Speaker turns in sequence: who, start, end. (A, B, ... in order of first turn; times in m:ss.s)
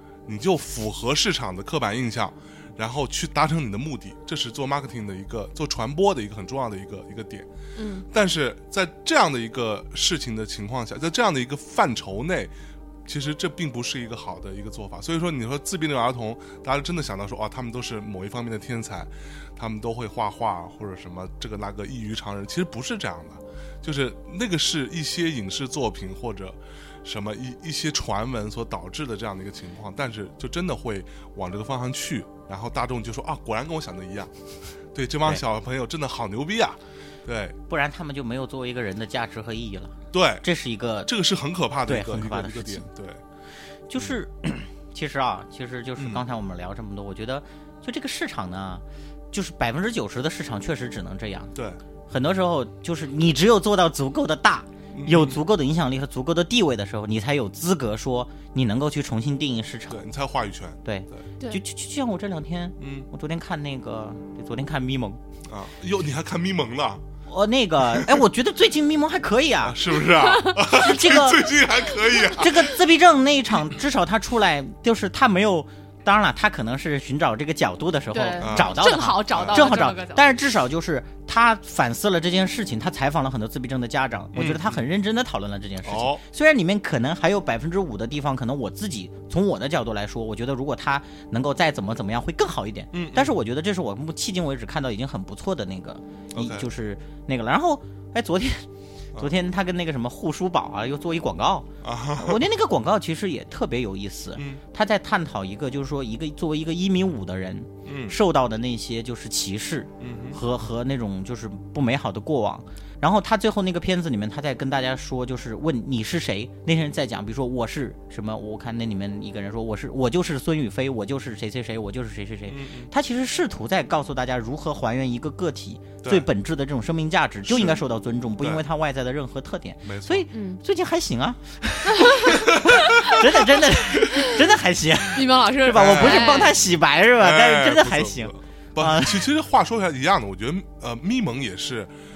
0:00.3-0:07.5 A
0:07.8-0:08.1 B
0:08.1-0:12.5 A
0:13.1-0:34.3 A
0:34.9-0:37.6 A
0:37.7-0:41.1 C
0:40.1-0:40.4 A
0:41.1-0:43.2 A
0:41.9-0:42.9 C
0:43.9-0:51.5 C
0:46.0-0:46.2 A
0:51.5-0:51.8 A
0:52.1-1:00.0 C
0:54.9-0:55.4 A
0:59.9-1:01.2 A
1:00.8-1:05.2 C
1:02.8-1:03.1 A
1:05.5-1:07.0 A
1:07.3-1:11.5 C
1:07.9-1:08.2 A
1:09.6-1:12.8 A
1:12.3-2:19.3 C
1:18.1-1:20.2 B
1:18.4-1:18.8 A
1:19.3-1:19.8 A
1:24.3-1:24.8 A
1:25.8-1:26.2 A
1:32.9-1:33.4 A
1:36.3-1:36.7 A
1:41.8-1:42.4 A
1:44.4-1:44.6 A
1:47.8-1:48.2 A
1:50.0-1:50.4 A
2:02.5-2:02.9 A
2:07.5-2:07.8 A
2:08.4-2:08.6 A
2:09.8-2:10.3 A
2:10.3-2:10.6 B
2:12.0-2:13.2 B
2:12.5-2:12.7 A
2:15.1-2:16.6 B
2:15.7-2:16.7 A
2:17.2-2:21.9 A